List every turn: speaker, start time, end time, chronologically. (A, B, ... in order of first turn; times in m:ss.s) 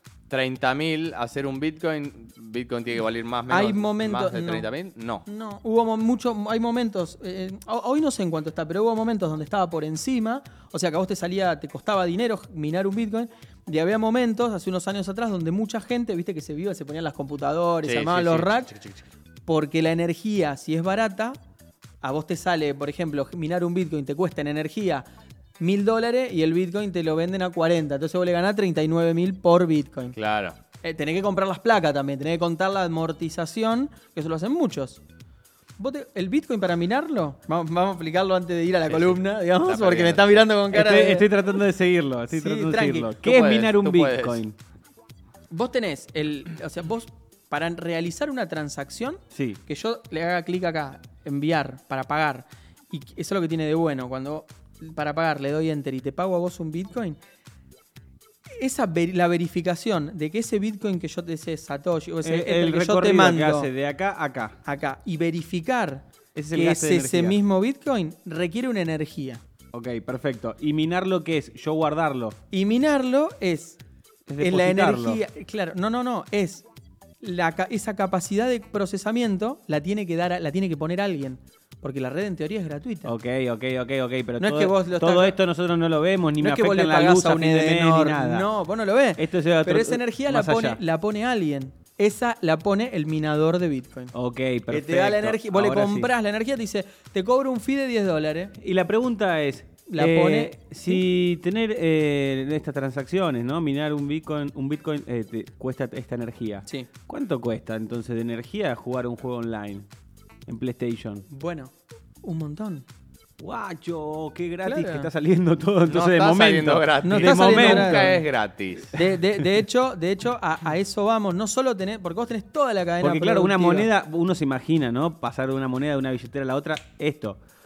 0:00.3-0:05.2 A
0:03.5-0:04.7 B
0:05.2-0:18.7 B
0:17.8-0:19.0 A
0:19.5-0:21.4 B
0:22.0-0:25.0 B
0:25.6-0:30.2 B
0:30.2-0:30.6 A
0:30.8-0:35.0 B
0:35.8-0:41.3 B
0:38.9-0:40.4 A
0:40.7-0:44.6 C
0:42.3-0:43.1 B
0:43.2-0:44.4 A
0:45.5-0:57.2 B
0:49.3-0:49.6 C
0:58.6-1:03.7 B
1:02.2-1:04.6 C
1:04.6-1:09.4 B
1:06.3-1:07.4 C
1:09.7-1:12.4 C
1:12.5-1:13.8 B
1:14.3-1:15.2 C
1:14.4-1:16.6 B
1:17.2-1:23.1 B
1:23.0-1:28.5 C
1:24.4-1:25.4 B
1:26.4-1:34.1 B
1:29.2-1:30.8 C
1:34.1-1:36.1 C
1:34.7-1:38.5 B
1:38.6-1:49.9 C
1:39.9-1:41.0 B
1:50.5-1:51.2 C
1:51.3-1:52.8 B
1:53.4-1:58.2 C
1:54.6-1:55.1 B
1:55.9-1:59.0 A
1:57.0-1:58.2 B
1:58.9-2:03.9 B
2:03.0-2:07.4 C